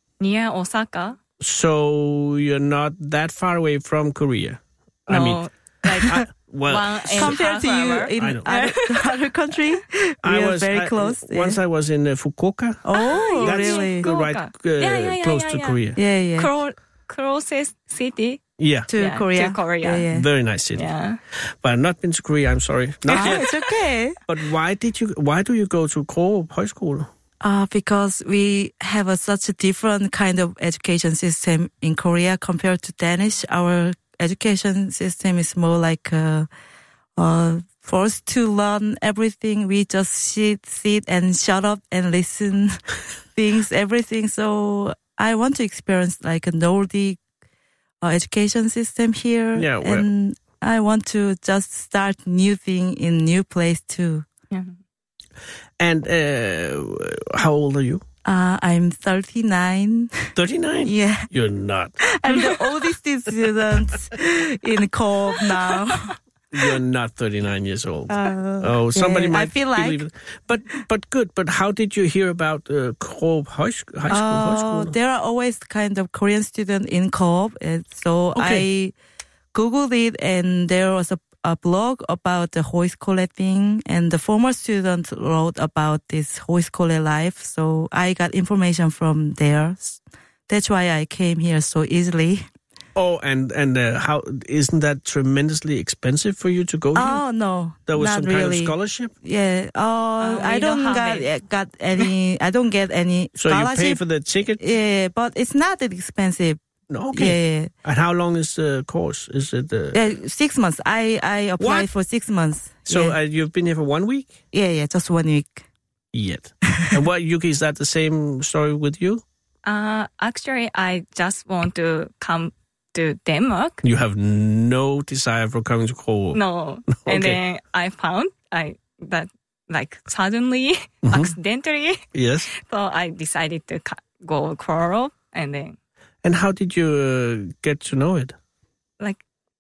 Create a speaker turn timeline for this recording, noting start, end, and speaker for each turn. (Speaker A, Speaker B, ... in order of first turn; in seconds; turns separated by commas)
Speaker A: 0.2-1.2, Speaker B: 1.4-7.4, Speaker A: 5.1-9.2, Speaker C: 7.2-11.6, Speaker B: 8.2-8.5, Speaker B: 10.2-12.8, Speaker C: 12.8-14.1, Speaker A: 13.0-15.8, Speaker B: 13.4-16.0, Speaker C: 16.0-16.5, Speaker A: 16.4-18.4, Speaker B: 18.6-18.9, Speaker C: 18.9-20.3, Speaker A: 19.0-20.1, Speaker B: 20.1-20.9, Speaker A: 20.8-21.2, Speaker B: 21.5-23.5, Speaker C: 23.1-24.2, Speaker A: 23.1-23.5, Speaker B: 24.3-27.1, Speaker C: 27.4-36.5, Speaker C: 37.2-42.8, Speaker C: 43.4-47.2, Speaker C: 48.0-54.3, Speaker B: 49.6-50.1, Speaker B: 55.8-58.0, Speaker C: 58.2-60.3, Speaker B: 60.4-62.0, Speaker C: 60.9-61.3, Speaker C: 62.0-66.1, Speaker B: 66.5-75.0, Speaker C: 68.1-70.0, Speaker C: 74.1-78.9, Speaker B: 78.3-78.7, Speaker C: 79.5-92.5, Speaker B: 93.0-97.2, Speaker C: 97.0-104.0, Speaker B: 97.9-99.1, Speaker A: 100.2-101.3, Speaker B: 103.4-104.6, Speaker C: 104.6-106.6, Speaker B: 106.9-110.0, Speaker C: 107.1-107.7, Speaker C: 109.9-113.2, Speaker B: 111.6-111.9, Speaker B: 112.9-114.4, Speaker C: 114.5-115.7, Speaker B: 116.1-119.2, Speaker A: 119.7-123.8, Speaker B: 123.8-126.4, Speaker A: 126.3-135.8, Speaker B: 127.0-127.4, Speaker B: 131.1-131.3, Speaker B: 132.1-132.5, Speaker B: 136.2-138.4